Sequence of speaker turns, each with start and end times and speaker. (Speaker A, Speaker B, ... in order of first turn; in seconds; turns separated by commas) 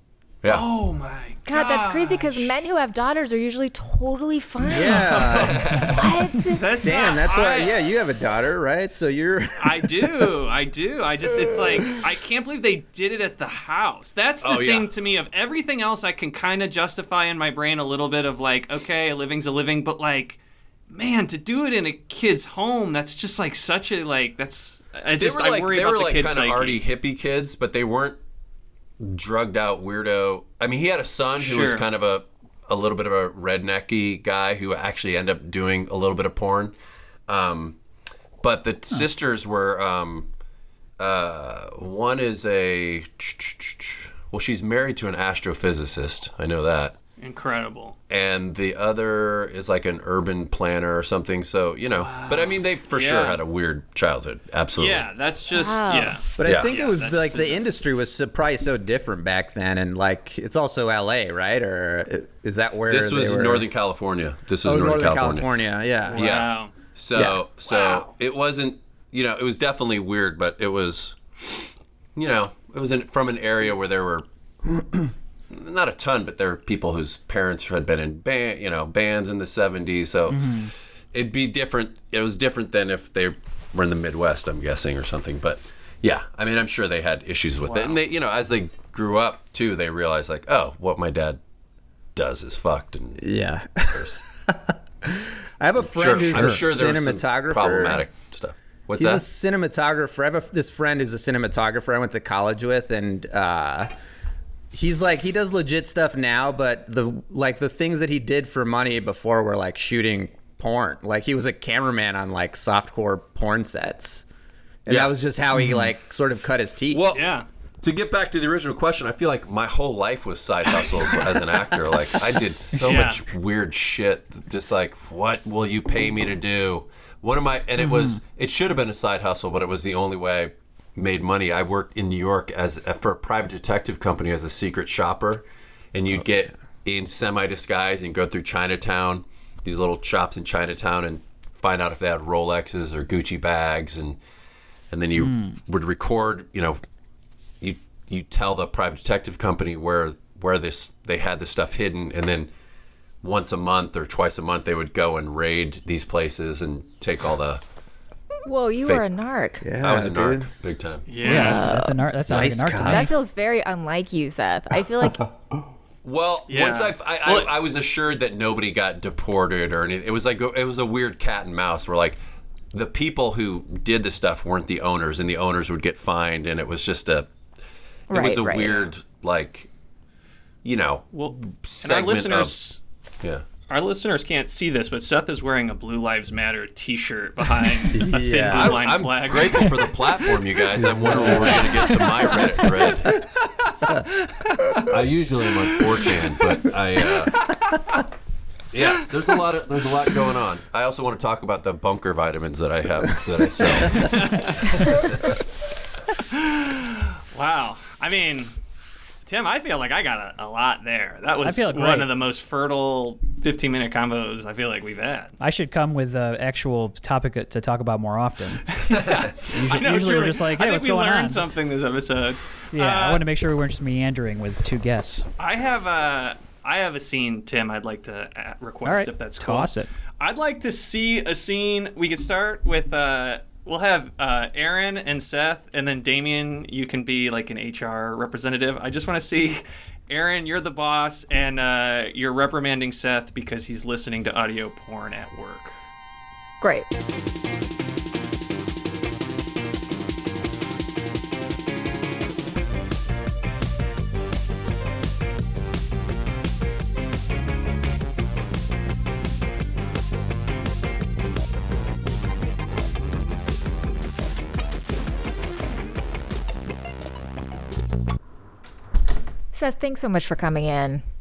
Speaker A: 0.5-2.6, Speaker B: 1.5-6.9, Speaker C: 4.6-5.9, Speaker D: 5.2-6.2, Speaker A: 6.5-7.8, Speaker C: 6.8-10.3, Speaker A: 9.6-20.4, Speaker D: 14.4-14.9, Speaker A: 20.9-26.8, Speaker D: 25.2-28.2, Speaker D: 29.0-36.8, Speaker A: 31.4-31.8, Speaker D: 37.3-37.8, Speaker D: 38.4-40.3, Speaker D: 41.0-47.0, Speaker A: 47.2-48.0, Speaker D: 48.1-55.1, Speaker A: 52.0-53.4, Speaker A: 54.8-57.6, Speaker B: 55.5-56.2, Speaker C: 56.4-63.7, Speaker D: 56.4-56.7, Speaker D: 62.9-65.5, Speaker C: 64.6-66.3, Speaker A: 66.1-66.8, Speaker D: 66.1-74.2, Speaker C: 67.1-67.4, Speaker A: 67.7-68.1, Speaker D: 75.5-91.4, Speaker E: 80.3-80.7, Speaker A: 87.6-88.0, Speaker D: 92.1-93.2, Speaker C: 93.2-98.0, Speaker D: 93.9-94.2, Speaker D: 95.8-99.2, Speaker C: 99.0-103.9, Speaker C: 104.7-114.2, Speaker C: 114.9-117.0, Speaker D: 114.9-115.1, Speaker E: 115.5-115.9, Speaker D: 116.9-117.3, Speaker A: 117.1-117.5, Speaker D: 117.8-144.2, Speaker A: 122.8-123.2, Speaker E: 127.8-128.2, Speaker D: 144.9-146.8, Speaker E: 145.2-145.6, Speaker D: 147.6-152.5, Speaker D: 153.2-157.6, Speaker B: 158.4-159.7, Speaker C: 159.6-160.6, Speaker D: 159.8-161.1, Speaker A: 161.1-161.7, Speaker B: 161.2-162.0, Speaker E: 161.2-163.1, Speaker C: 162.3-163.1, Speaker B: 162.8-165.3, Speaker D: 166.0-172.2, Speaker A: 166.5-167.5, Speaker D: 172.7-177.3, Speaker B: 178.1-178.9, Speaker D: 178.1-179.7, Speaker D: 180.6-182.5, Speaker A: 181.1-182.8, Speaker A: 183.7-189.9, Speaker C: 187.9-188.8, Speaker D: 188.5-193.2, Speaker C: 190.8-191.5, Speaker A: 191.3-194.8, Speaker D: 194.8-197.6, Speaker A: 195.8-196.3, Speaker A: 197.1-198.0, Speaker D: 198.7-205.3, Speaker A: 203.9-205.1, Speaker A: 206.2-208.5, Speaker A: 209.2-215.3, Speaker E: 211.4-212.1, Speaker E: 215.4-218.8, Speaker A: 218.7-223.2, Speaker D: 218.9-219.3, Speaker E: 219.4-221.4, Speaker E: 222.7-225.2, Speaker A: 225.4-245.8, Speaker E: 228.8-229.9, Speaker B: 246.6-246.9, Speaker B: 269.5-271.0